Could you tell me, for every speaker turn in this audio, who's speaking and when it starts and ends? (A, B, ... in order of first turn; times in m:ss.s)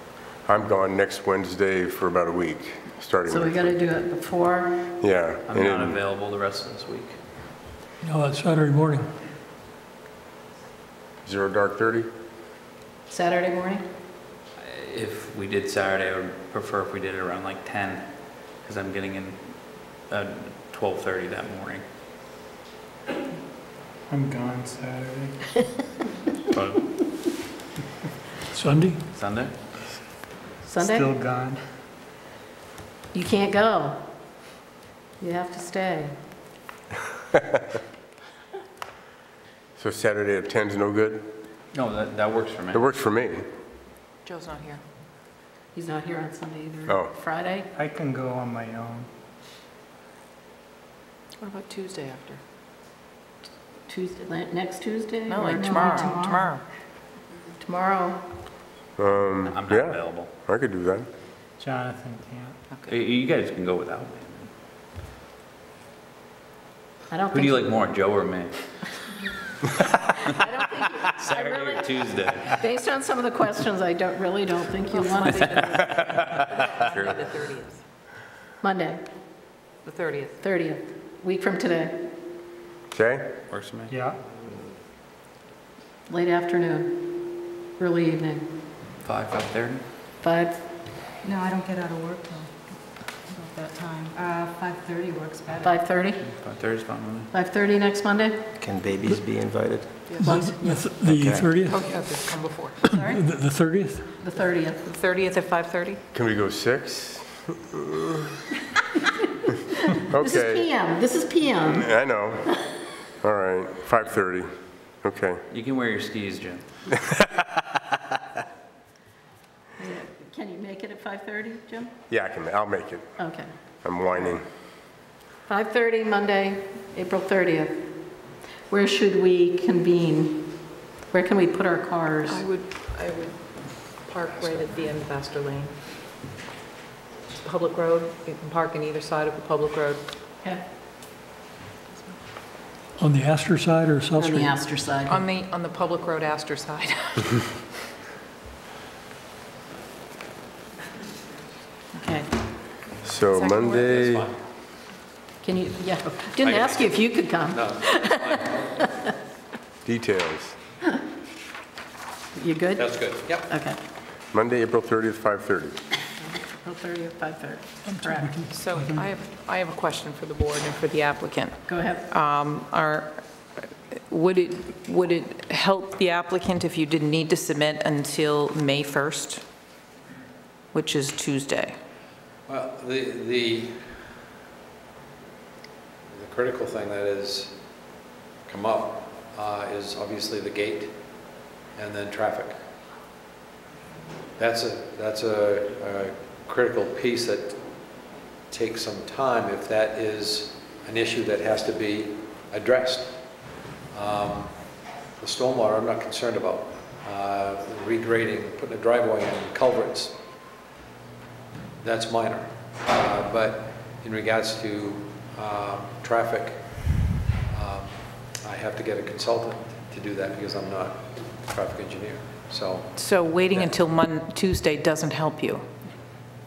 0:00.4-0:03.8 A
0:03.3-0:04.9 B
0:05.0-0:06.0 A
0:05.5-0:07.2 C
0:08.0-0:09.1 D
0:11.2-0:12.1 A
0:13.1-0:13.8 B
0:14.6-0:21.8 C
0:24.1-0:25.4 E
0:26.5-0:26.9 C
0:28.5-0:29.0 D
0:29.1-0:29.6 C
0:30.6-0:31.1 B
0:30.8-0:31.6 E
0:33.1-0:34.1 B
0:35.2-0:36.2 B
0:39.8-0:41.3 A
0:41.7-0:42.9 C
0:42.7-0:43.5 A
0:44.2-0:44.8 F
0:45.7-0:47.7 B
0:47.8-0:49.1 E
0:51.4-0:52.4 F
0:53.9-0:56.5 B
0:55.3-0:56.6 F
0:55.5-0:56.4 G
0:57.6-0:58.2 B
0:59.0-1:01.1 A
0:59.4-1:00.3 C
1:01.6-1:02.6 E
1:02.9-1:04.5 C
1:07.1-1:07.7 B
1:07.3-1:08.6 C
1:10.3-1:16.4 B
1:11.1-1:12.6 C
1:14.9-1:17.8 F
1:16.2-1:17.3 C
1:18.6-1:19.0 B
1:19.8-1:20.4 F
1:20.4-1:22.1 B
1:22.9-1:23.3 A
1:23.5-1:23.9 C
1:23.9-1:24.2 E
1:26.1-1:28.5 B
1:29.0-1:29.8 C
1:30.2-1:30.6 B
1:31.2-1:32.6 G
1:33.1-1:35.8 G
1:35.6-1:36.2 B
1:36.2-1:37.3 C
1:37.3-1:38.5 B
1:38.6-1:40.1 H
1:40.2-1:41.0 B
1:40.2-1:41.8 D
1:41.0-1:41.5 H
1:41.7-1:42.8 F
1:42.9-1:44.1 D
1:44.2-1:44.8 B
1:44.8-1:46.0 F
1:46.1-1:48.2 A
1:50.1-1:50.7 A
1:50.2-1:51.9 B
1:51.6-1:55.4 A
1:55.5-1:57.0 C
1:59.8-2:01.9 B
2:02.1-2:03.1 A
2:03.2-2:03.5 B
2:03.8-2:04.5 A
2:05.5-2:12.4 B
2:12.3-2:15.7 F
2:17.3-2:20.0 F
2:23.0-2:24.6 D
2:24.2-2:25.2 B
2:25.1-2:27.4 F
2:31.9-2:32.3 B
2:33.0-2:34.3 A
2:33.5-2:34.4 I
2:35.4-2:38.3 B
2:36.4-2:38.8 I
2:39.8-2:40.6 A
2:42.4-2:43.8 B
2:42.8-2:43.5 I
2:44.3-2:45.8 A
2:46.2-2:48.4 B
2:48.0-2:48.9 D
2:48.5-2:53.3 F
2:51.7-2:52.0 B
2:54.1-2:59.4 F
3:00.7-3:01.8 F
3:02.5-3:04.1 I
3:06.1-3:12.6 I
3:14.4-3:30.3 I
3:31.8-3:43.7 I
3:42.9-3:45.7 F